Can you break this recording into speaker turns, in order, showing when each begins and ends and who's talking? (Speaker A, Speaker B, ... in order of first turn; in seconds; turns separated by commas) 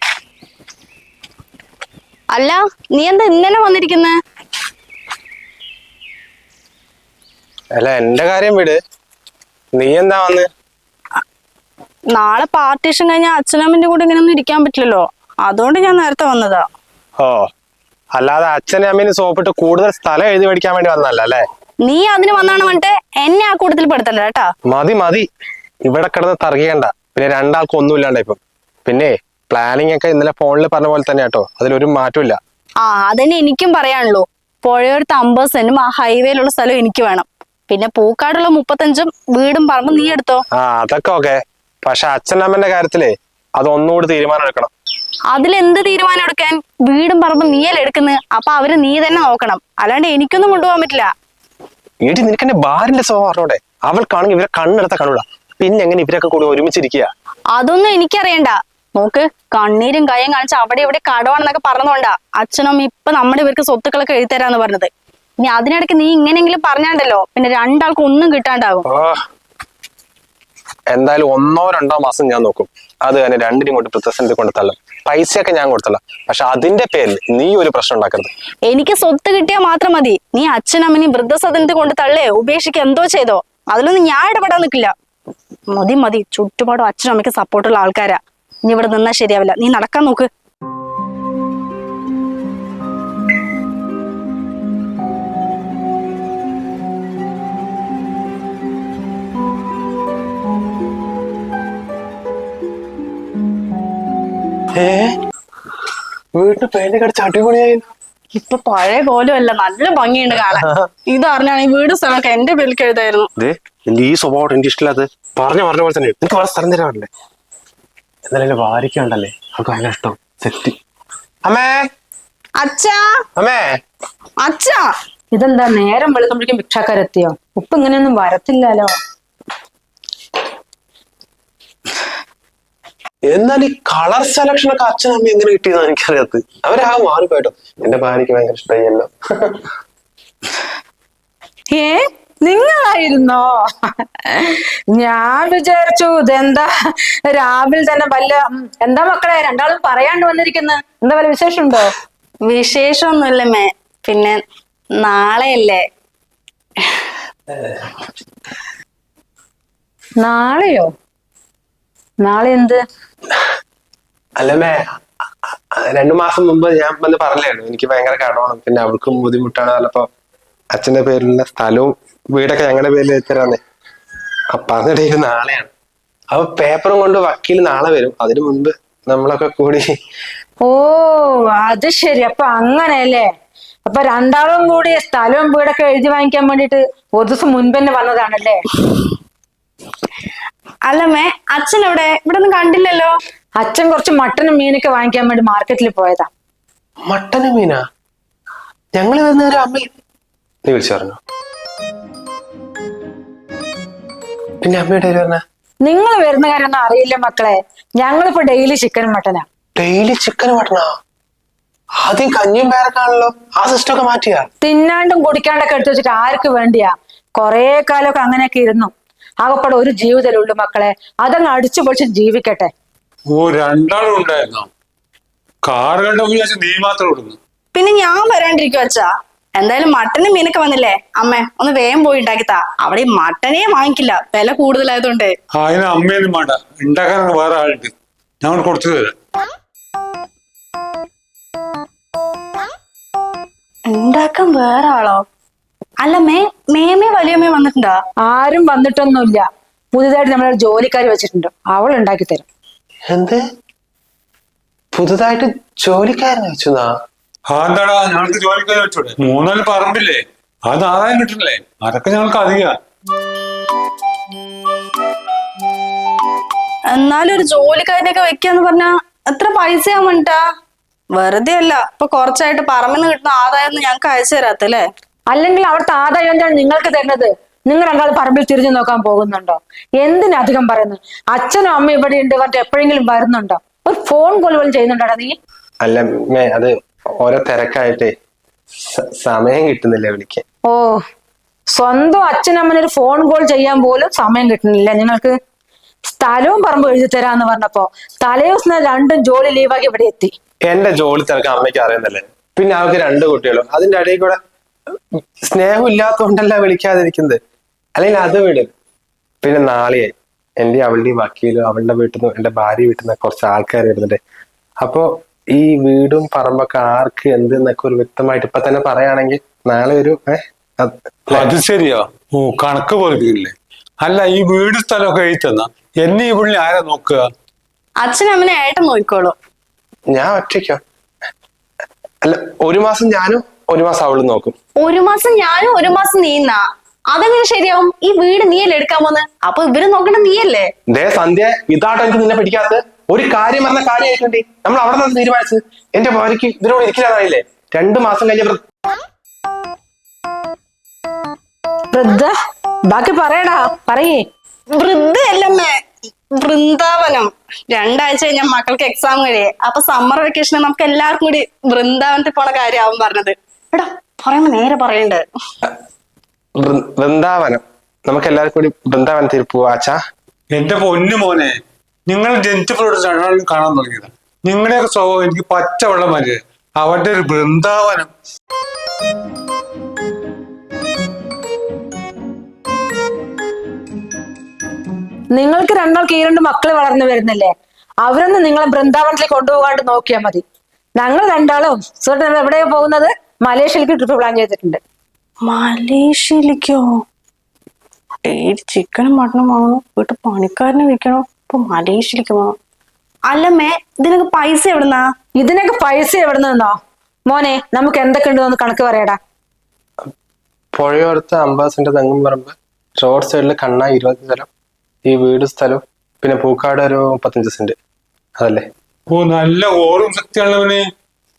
Speaker A: 2.3-4.1, Speaker B: 7.8-8.8, Speaker B: 9.7-10.5, Speaker A: 12.1-16.6, Speaker B: 17.2-17.5, Speaker B: 18.1-21.4, Speaker A: 21.9-24.5, Speaker B: 24.7-25.2, Speaker B: 25.9-32.4, Speaker A: 32.8-40.4, Speaker B: 40.5-44.7, Speaker A: 45.3-51.1, Speaker B: 52.0-57.1, Speaker A: 57.5-68.8, Speaker B: 68.9-69.2, Speaker B: 70.9-78.3, Speaker A: 78.7-84.9, Speaker A: 85.7-90.3, Speaker B: 104.8-105.1, Speaker B: 106.3-107.8, Speaker A: 108.3-113.3, Speaker B: 110.5-110.8, Speaker B: 113.4-117.1, Speaker B: 118.3-120.7, Speaker B: 121.4-121.8, Speaker A: 122.6-123.0, Speaker B: 123.4-123.7, Speaker A: 124.4-124.9, Speaker C: 125.3-128.9, Speaker B: 133.3-139.6, Speaker C: 141.7-146.7, Speaker C: 147.3-151.9, Speaker A: 152.5-154.4, Speaker A: 155.0-155.8, Speaker C: 160.2-160.9, Speaker C: 162.2-162.8, Speaker B: 164.4-164.8, Speaker B: 165.8-170.1, Speaker B: 170.7-173.6, Speaker B: 174.5-175.7, Speaker B: 176.3-179.9, Speaker C: 180.6-183.3, Speaker C: 183.8-188.6, Speaker A: 190.9-193.1, Speaker C: 193.6-196.3, Speaker B: 197.1-197.8, Speaker B: 198.9-199.9, Speaker B: 200.6-201.2, Speaker B: 204.6-205.4, Speaker C: 205.8-209.4, Speaker B: 209.8-210.9, Speaker B: 212.0-214.5, Speaker C: 214.6-218.9, Speaker C: 219.4-222.7, Speaker D: 223.3-224.7, Speaker D: 225.6-227.4, Speaker A: 227.7-235.3, Speaker D: 235.5-239.1, Speaker A: 243.9-245.2, Speaker A: 246.0-247.9, Speaker C: 248.3-252.4, Speaker B: 253.1-253.4, Speaker B: 254.9-256.9, Speaker D: 257.5-262.8, Speaker A: 266.9-270.4, Speaker A: 271.2-274.8, Speaker C: 275.3-285.4, Speaker B: 285.8-288.1, Speaker B: 288.9-290.4, Speaker C: 290.7-291.0, Speaker C: 291.7-295.3, Speaker C: 296.1-300.3, Speaker B: 300.7-304.4, Speaker B: 305.4-307.4, Speaker B: 308.0-308.7, Speaker B: 309.4-314.2, Speaker B: 314.8-321.5, Speaker D: 321.3-327.2, Speaker A: 328.0-329.3, Speaker B: 330.1-330.8, Speaker B: 332.2-334.5, Speaker A: 334.8-340.7, Speaker B: 340.9-348.6, Speaker C: 351.9-352.3, Speaker C: 352.9-354.2, Speaker A: 354.8-355.8, Speaker A: 356.4-365.2, Speaker B: 366.6-370.0, Speaker D: 370.5-371.5, Speaker D: 372.1-378.1, Speaker C: 385.3-387.5, Speaker C: 388.0-390.4, Speaker C: 391.0-394.8, Speaker A: 395.4-396.8, Speaker A: 398.2-402.5, Speaker A: 403.3-405.0, Speaker C: 405.4-406.8, Speaker C: 407.3-409.2, Speaker B: 410.7-414.5, Speaker B: 415.1-417.7, Speaker D: 419.1-420.8